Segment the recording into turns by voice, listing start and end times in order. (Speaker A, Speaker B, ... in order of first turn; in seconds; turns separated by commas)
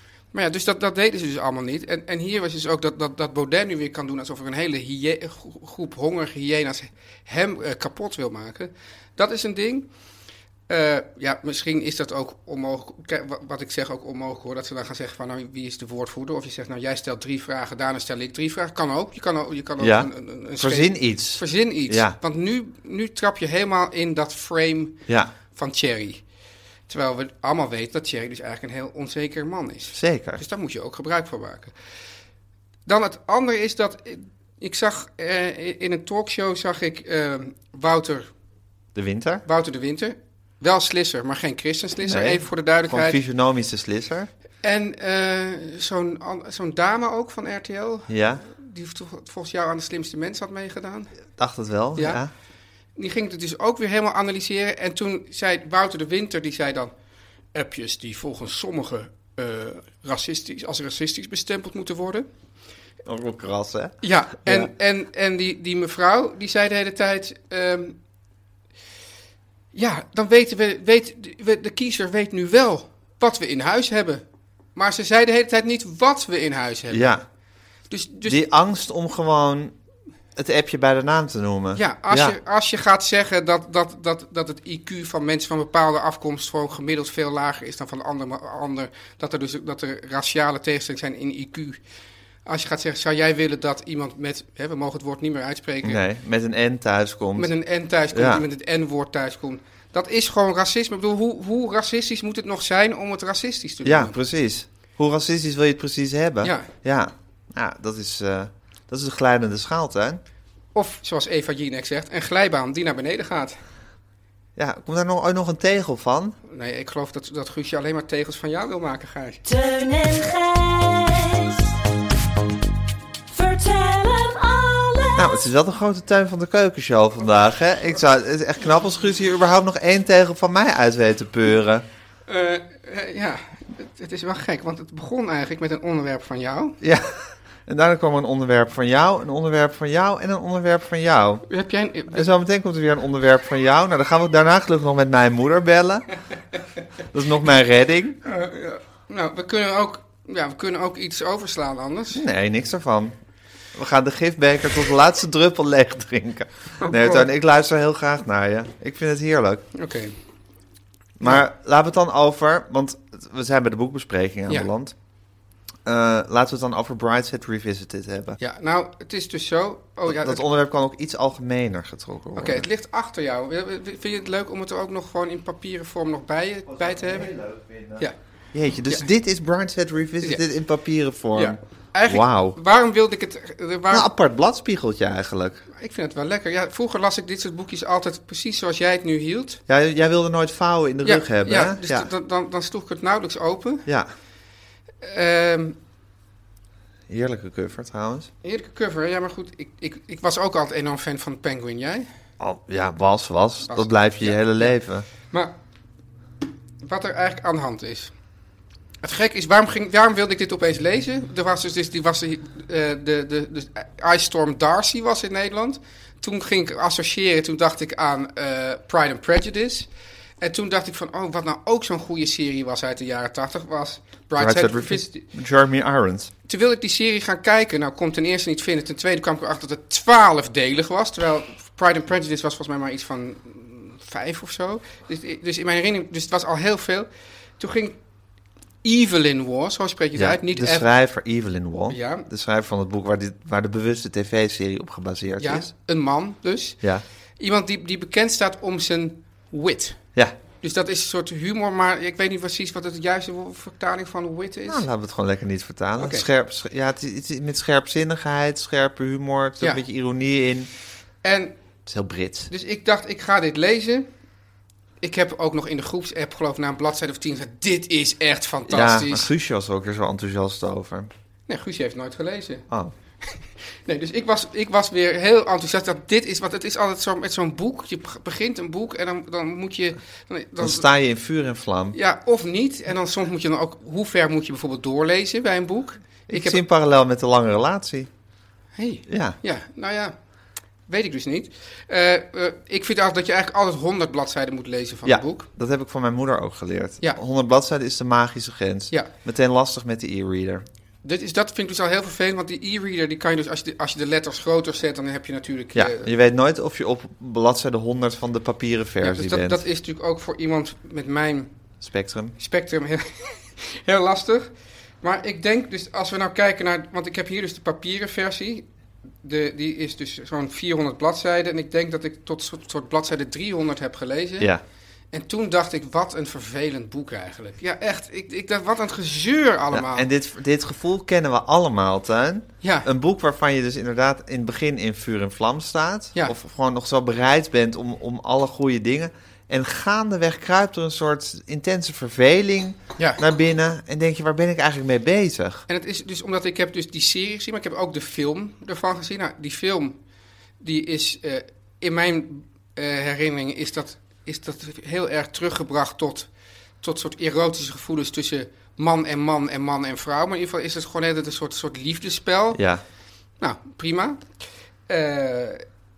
Speaker A: 0.3-9.9, Speaker A: 10.7-26.2, Speaker B: 19.8-22.2, Speaker B: 25.1-25.3, Speaker A: 26.9-31.7, Speaker B: 29.9-30.4, Speaker A: 32.9-38.3, Speaker B: 38.9-39.4, Speaker A: 39.4-43.2, Speaker B: 42.0-44.3, Speaker A: 44.6-51.1, Speaker B: 48.1-48.4, Speaker B: 51.4-52.3, Speaker A: 52.0-52.2, Speaker A: 53.0-56.9, Speaker A: 57.5-62.2, Speaker B: 63.0-64.7, Speaker A: 64.0-68.0, Speaker A: 69.7-74.2, Speaker A: 74.7-77.1, Speaker B: 76.9-77.2, Speaker A: 77.9-78.4, Speaker B: 78.2-79.7, Speaker B: 80.3-82.3, Speaker A: 81.7-91.8, Speaker A: 92.5-96.0, Speaker B: 95.8-97.5, Speaker A: 97.4-104.2, Speaker B: 98.1-98.4, Speaker B: 103.8-110.2, Speaker A: 106.4-106.7, Speaker A: 110.7-113.5, Speaker B: 114.6-116.3, Speaker A: 116.5-119.4, Speaker C: 119.4-121.8, Speaker C: 123.3-125.4, Speaker B: 125.2-131.8, Speaker A: 132.3-136.8, Speaker B: 136.8-141.4, Speaker A: 141.5-142.3, Speaker B: 142.1-146.1, Speaker B: 147.1-148.2, Speaker A: 148.2-152.2, Speaker B: 152.1-153.1, Speaker B: 153.7-159.6, Speaker A: 156.8-157.2, Speaker A: 159.7-160.1, Speaker B: 161.2-164.9, Speaker B: 165.8-168.4, Speaker A: 168.4-170.4, Speaker B: 170.1-172.7, Speaker A: 172.3-177.3, Speaker B: 176.7-182.6, Speaker A: 181.3-184.1, Speaker B: 183.9-185.6, Speaker A: 185.7-189.6, Speaker B: 189.7-192.1, Speaker A: 191.0-193.8, Speaker A: 195.0-195.8, Speaker B: 197.1-198.3, Speaker A: 198.4-202.1, Speaker B: 202.4-205.1, Speaker A: 203.7-204.8, Speaker A: 205.3-205.5, Speaker A: 206.8-208.1, Speaker A: 209.0-219.9, Speaker A: 220.4-225.3, Speaker B: 224.4-226.3, Speaker A: 226.5-237.1, Speaker A: 237.6-238.0, Speaker A: 238.8-240.9, Speaker B: 240.2-245.7, Speaker A: 241.9-242.3, Speaker A: 245.4-246.8, Speaker A: 247.4-250.0, Speaker A: 250.6-254.8, Speaker B: 254.7-260.7, Speaker A: 256.0-256.2, Speaker A: 261.2-261.5, Speaker B: 261.9-262.5, Speaker A: 262.5-264.1, Speaker A: 265.0-269.3, Speaker B: 268.6-271.1, Speaker A: 271.5-272.6, Speaker A: 273.2-280.9, Speaker B: 280.6-281.9, Speaker A: 281.9-286.6, Speaker B: 286.3-288.1, Speaker A: 288.8-290.1, Speaker B: 289.1-289.4, Speaker A: 290.9-295.5, Speaker B: 295.0-300.6, Speaker A: 301.0-306.1, Speaker B: 305.7-309.6, Speaker A: 309.0-311.5, Speaker B: 311.8-312.3, Speaker A: 312.4-314.5, Speaker A: 315.0-318.7, Speaker A: 319.2-324.5, Speaker A: 325.1-330.1, Speaker B: 329.7-345.6, Speaker A: 332.6-332.9, Speaker A: 345.7-349.9, Speaker A: 350.6-356.3, Speaker A: 356.8-362.6, Speaker B: 362.5-362.8, Speaker A: 363.4-364.2, Speaker A: 364.9-365.6